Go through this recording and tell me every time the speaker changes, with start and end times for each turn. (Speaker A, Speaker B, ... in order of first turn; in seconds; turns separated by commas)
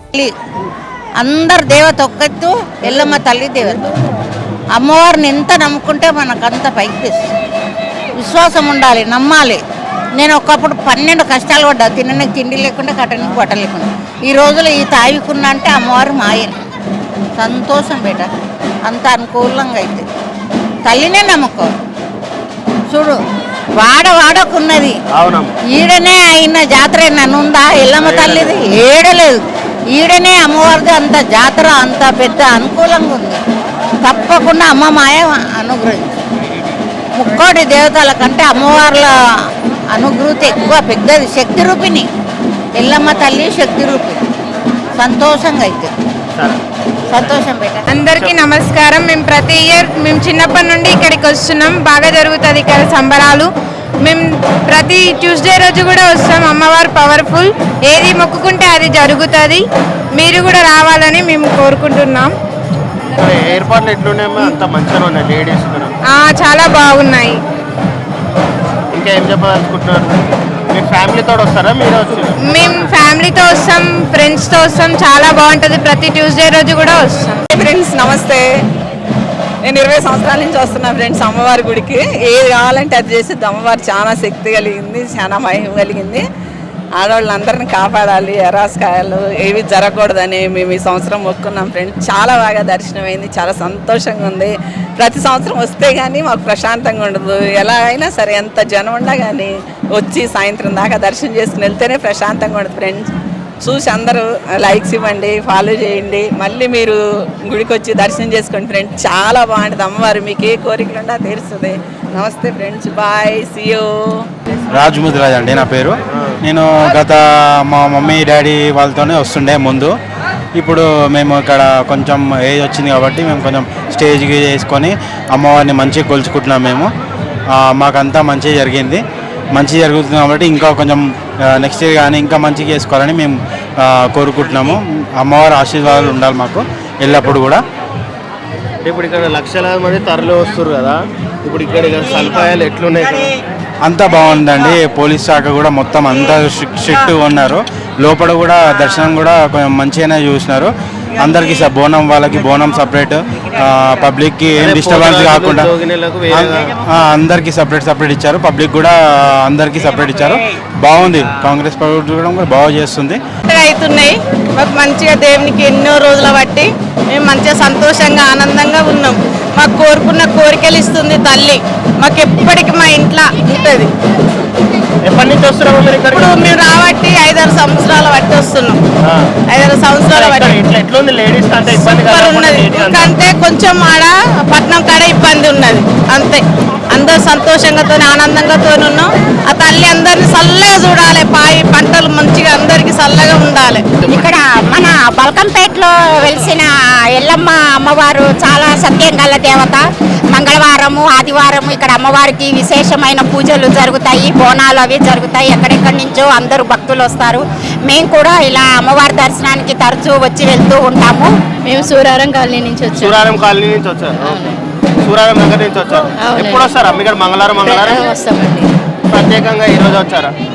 Speaker A: 1.2-3.8, Speaker A: 4.8-7.2, Speaker A: 8.2-9.6, Speaker A: 10.2-16.5, Speaker A: 17.4-18.3, Speaker A: 18.9-20.0, Speaker A: 20.9-21.7, Speaker A: 22.9-23.2, Speaker A: 23.8-24.9, Speaker B: 25.1-25.5, Speaker A: 25.7-29.4, Speaker B: 28.0-28.6, Speaker A: 29.9-33.4, Speaker A: 34.0-36.1, Speaker A: 37.2-39.1, Speaker A: 39.9-42.1, Speaker A: 42.8-44.2, Speaker A: 45.0-45.9, Speaker A: 47.1-47.9, Speaker C: 47.9-53.5, Speaker C: 54.0-59.6, Speaker C: 60.2-62.3, Speaker B: 63.2-65.9, Speaker C: 66.1-67.4, Speaker B: 68.9-70.1, Speaker B: 70.7-72.3, Speaker C: 72.4-77.4, Speaker D: 77.5-78.5, Speaker D: 79.6-86.2, Speaker D: 87.0-103.1, Speaker D: 103.6-114.2, Speaker E: 114.7-117.2, Speaker E: 117.7-119.9, Speaker E: 120.6-126.9, Speaker E: 127.5-129.0, Speaker E: 129.5-137.6, Speaker B: 138.8-143.3, Speaker E: 143.8-155.8, Speaker B: 154.6-156.7, Speaker E: 156.3-163.2, Speaker F: 163.5-173.9, Speaker B: 175.1-176.2, Speaker F: 176.2-178.8, Speaker B: 179.0-179.3, Speaker F: 179.5-180.7, Speaker B: 180.1-183.1, Speaker F: 181.7-193.9, Speaker G: 194.0-211.3, Speaker H: 211.7-213.3, Speaker B: 212.9-214.4, Speaker H: 214.2-214.6, Speaker B: 215.1-218.0, Speaker H: 216.2-216.8, Speaker H: 217.6-218.7, Speaker B: 219.1-220.3